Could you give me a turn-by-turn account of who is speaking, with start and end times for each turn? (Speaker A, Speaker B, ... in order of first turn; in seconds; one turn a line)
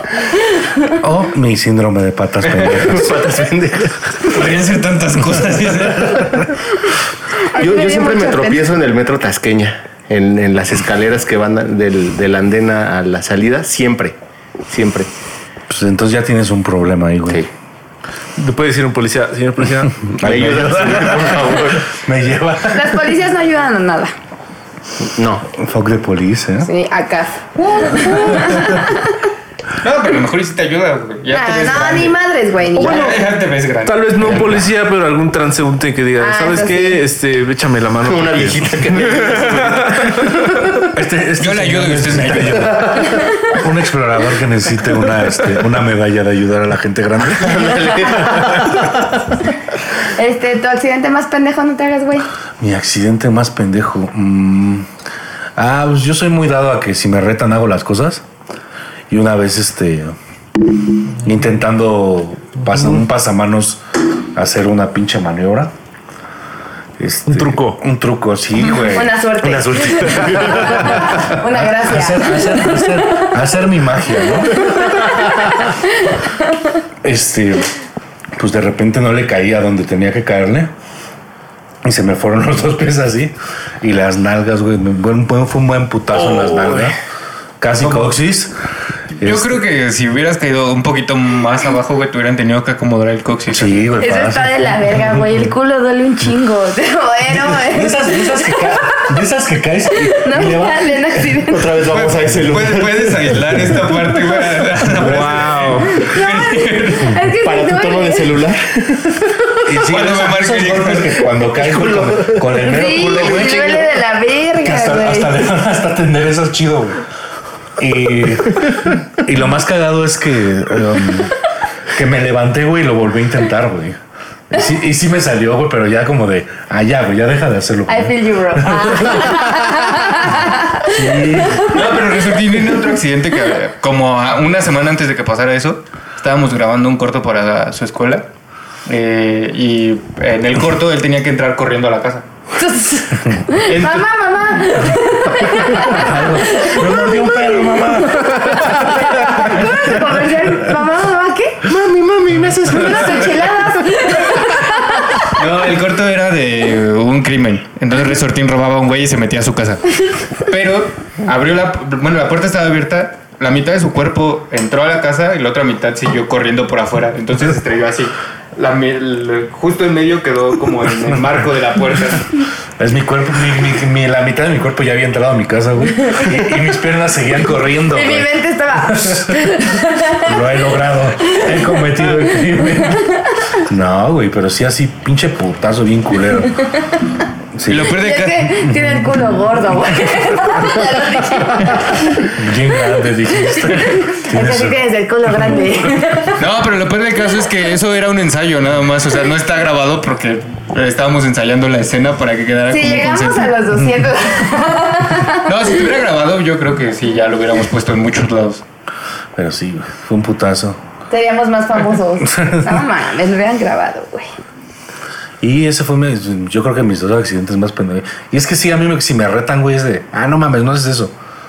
Speaker A: 1.0-3.2
Speaker B: 2.7-4.0
Speaker C: 4.3-6.5
Speaker D: 7.4-8.7
Speaker B: 7.5-14.2
Speaker B: 14.7-15.1
Speaker A: 15.7-17.4
Speaker E: 18.4-20.2
Speaker A: 20.1-23.0
Speaker B: 20.2-21.9
Speaker D: 22.7-24.1
Speaker B: 25.0-25.5
Speaker A: 25.5-26.7
Speaker D: 26.6-29.2
Speaker C: 29.8-32.2
Speaker D: 31.3-33.1
Speaker C: 32.8-34.4
Speaker E: 32.8-33.3
Speaker E: 33.8-40.3
Speaker B: 34.2-34.6
Speaker D: 36.2-37.0
Speaker B: 38.0-40.6
Speaker A: 40.9-48.3
Speaker C: 41.4-42.9
Speaker B: 47.3-48.9
Speaker D: 50.1-52.3
Speaker A: 52.6-54.9
Speaker A: 55.6-58.2
Speaker A: 59.1-60.2
Speaker A: 61.2-63.8
Speaker A: 64.3-65.7
Speaker A: 67.0-69.2
Speaker E: 67.3-67.8
Speaker D: 68.9-73.3
Speaker B: 69.5-71.1
Speaker A: 70.5-75.0
Speaker D: 75.0-76.2
Speaker A: 77.0-77.7
Speaker A: 78.4-80.7
Speaker A: 81.8-87.0
Speaker B: 86.2-86.9
Speaker A: 87.6-88.5
Speaker C: 87.8-88.1
Speaker C: 89.2-93.9
Speaker A: 89.2-89.6
Speaker A: 93.5-94.6
Speaker D: 94.0-99.0
Speaker A: 97.3-101.3
Speaker D: 100.0-101.7
Speaker B: 101.5-103.3
Speaker C: 101.9-107.2
Speaker E: 105.0-106.0
Speaker D: 105.9-108.3
Speaker B: 107.4-109.3
Speaker A: 109.7-113.8
Speaker C: 109.8-111.2
Speaker B: 111.5-113.9
Speaker D: 112.6-115.3
Speaker A: 114.6-117.0
Speaker A: 117.8-121.4
Speaker A: 121.9-124.0
Speaker A: 124.5-130.3
Speaker D: 127.9-131.7
Speaker A: 130.8-131.8
Speaker C: 131.7-138.3
Speaker C: 138.9-142.3
Speaker D: 142.6-151.7
Speaker C: 143.7-144.1
Speaker A: 145.8-150.6
Speaker B: 151.7-154.0
Speaker D: 152.7-155.3
Speaker C: 155.3-172.5
Speaker A: 172.8-179.6
Speaker D: 177.9-180.3
Speaker A: 180.1-183.1
Speaker D: 182.9-183.2
Speaker A: 183.6-186.6
Speaker A: 187.6-188.0
Speaker C: 187.7-188.6
Speaker D: 188.0-192.3
Speaker A: 192.2-194.8
Speaker D: 193.5-196.4
Speaker A: 195.4-196.0
Speaker C: 196.4-203.6
Speaker D: 202.7-205.5
Speaker C: 205.4-208.6
Speaker A: 209.4-210.8
Speaker D: 211.1-214.3
Speaker A: 212.3-212.8
Speaker A: 215.4-221.2